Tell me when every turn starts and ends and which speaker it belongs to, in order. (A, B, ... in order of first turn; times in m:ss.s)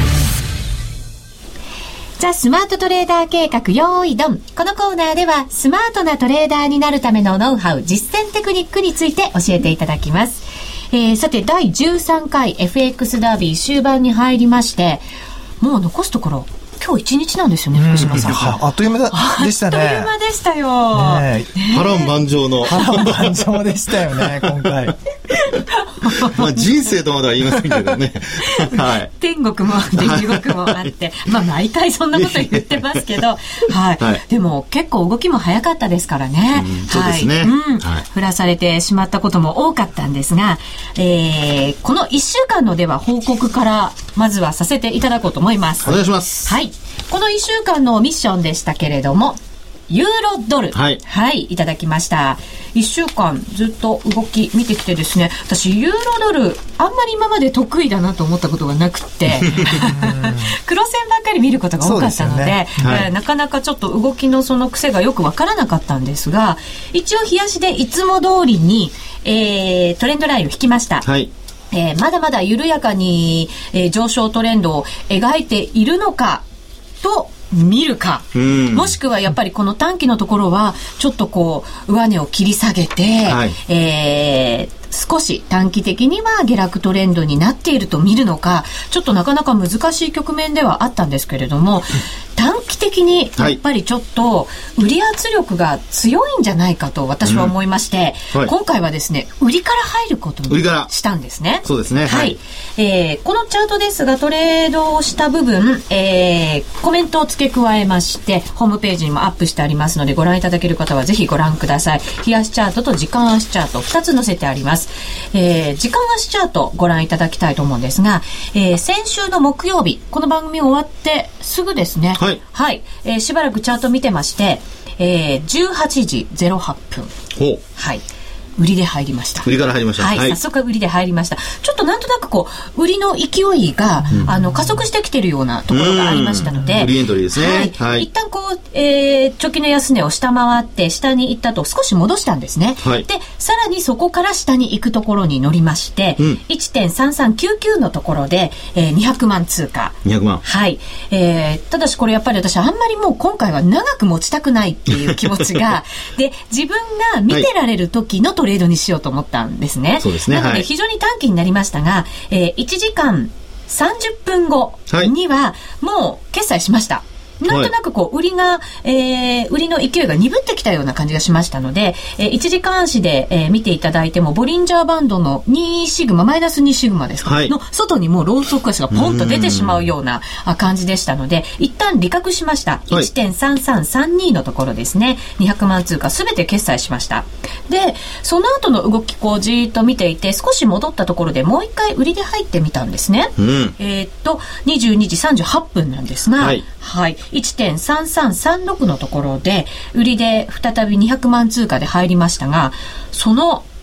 0:02.2-0:15.0 A
0:15.6-0:18.5 A
0:17.7-0:20.1 B
0:18.0-0:18.5 C
0:19.1-0:22.1 A
0:20.9-0:21.6 B
0:21.7-0:23.3 C
0:22.6-0:25.0 B
0:24.0-0:24.9 C
0:25.4-0:26.4 A
0:26.1-0:29.1 C
0:28.4-1:11.0 A
0:29.9-0:30.8 C
0:32.1-0:33.0 C
0:36.5-0:38.0 C
0:45.8-0:46.5 C
0:50.7-0:51.0 C
0:59.7-1:00.5 B
1:01.8-1:03.1 B
1:02.8-1:03.1 C
1:11.0-1:11.3 C
1:11.7-1:16.4 A
1:17.0-2:07.1 A
1:18.3-1:18.9 C
1:23.2-1:23.6 C
1:37.2-1:37.5 C
1:40.5-1:40.9 C
1:41.6-1:42.4 C
2:07.4-2:07.6 C
2:07.8-2:08.0 A
2:08.6-3:23.6 A
2:09.4-2:10.4 C
2:15.7-2:18.0 C
2:30.0-2:30.4 C
2:35.0-2:35.4 C
2:40.0-2:40.7 C
2:47.5-2:47.7 C
2:57.2-2:57.5 C
2:58.9-2:59.8 C
3:13.4-3:13.7 C